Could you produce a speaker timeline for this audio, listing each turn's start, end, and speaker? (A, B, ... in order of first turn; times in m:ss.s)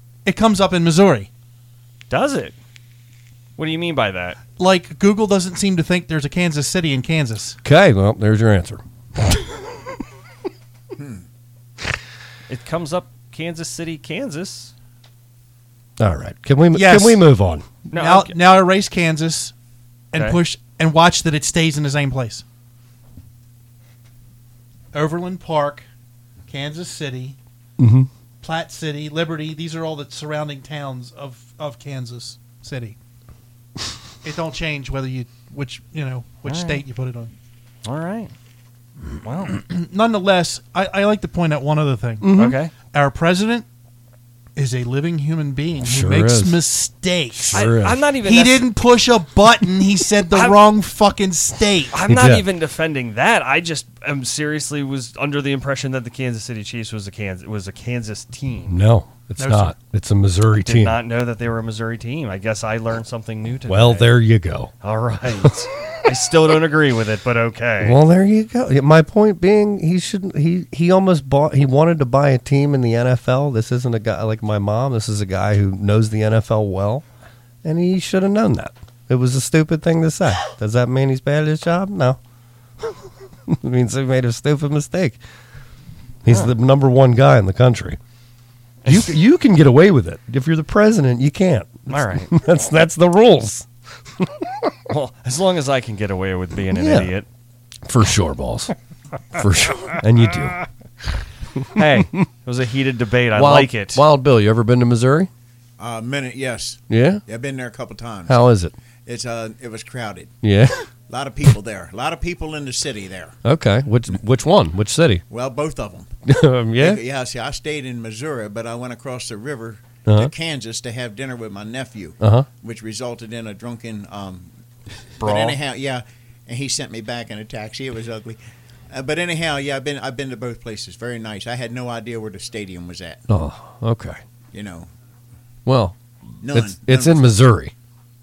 0:00.2-0:01.3 A
0:02.1-0:02.6 B
0:03.6-0:04.4 B
0:04.6-0:07.6 A
0:07.6-0:09.8 C
0:11.0-0:11.2 D
0:12.5-0:14.7 B
0:16.0-0:17.6 C
0:16.7-0:17.2 A
0:17.9-0:18.4 B
0:17.9-0:19.5 A
0:20.1-0:22.4 A
0:20.1-0:20.4 B
0:24.9-0:25.8 A
0:26.5-0:27.4 A
0:27.8-0:28.1 C
0:28.4-0:33.0 A
0:34.2-0:37.3 A
0:36.4-0:36.8 B
0:37.8-0:38.3 B
0:39.2-0:39.6 B
0:39.6-0:43.6 A
0:42.2-0:42.6 C
0:42.3-0:42.7 B
0:44.6-0:52.0 A
0:45.8-0:46.6 C
0:47.4-0:48.0 C
0:47.5-0:48.7 B
0:50.3-0:50.6 B
0:51.9-0:58.8 B
0:52.0-0:52.5 C
0:58.7-1:01.0 C
0:59.4-0:59.7 A
1:00.6-1:04.1 B
1:03.6-1:04.7 C
1:04.8-1:08.0 B
1:05.4-1:06.1 C
1:07.8-1:17.0 C
1:17.6-1:22.2 C
1:23.5-1:25.2 C
1:26.2-1:28.0 C
1:26.3-1:26.5 B
1:28.8-1:29.2 B
1:28.8-1:33.7 C
1:31.9-1:32.4 B
1:34.2-1:34.7 C
1:34.9-1:37.3 B
1:36.7-1:37.1 C
1:37.8-1:38.7 C
1:39.3-1:40.6 C
1:41.6-1:42.2 C
1:41.7-1:44.0 B
1:43.3-1:45.3 C
1:45.8-1:48.4 D
1:46.9-1:47.2 C
1:48.3-1:48.7 C
1:49.0-1:50.3 D
1:50.4-1:50.8 C
1:51.1-1:53.3 D
1:53.4-1:55.2 C
1:55.3-1:56.1 D
1:56.2-1:57.0 C
1:56.8-2:04.5 D
2:00.0-2:00.3 C
2:02.2-2:02.5 C
2:05.2-2:05.6 B
2:05.2-2:08.4 D
2:08.9-2:13.2 D
2:13.3-2:14.2 C
2:14.5-2:14.9 D
2:15.6-2:16.0 C
2:16.4-2:17.2 D
2:16.5-2:17.7 C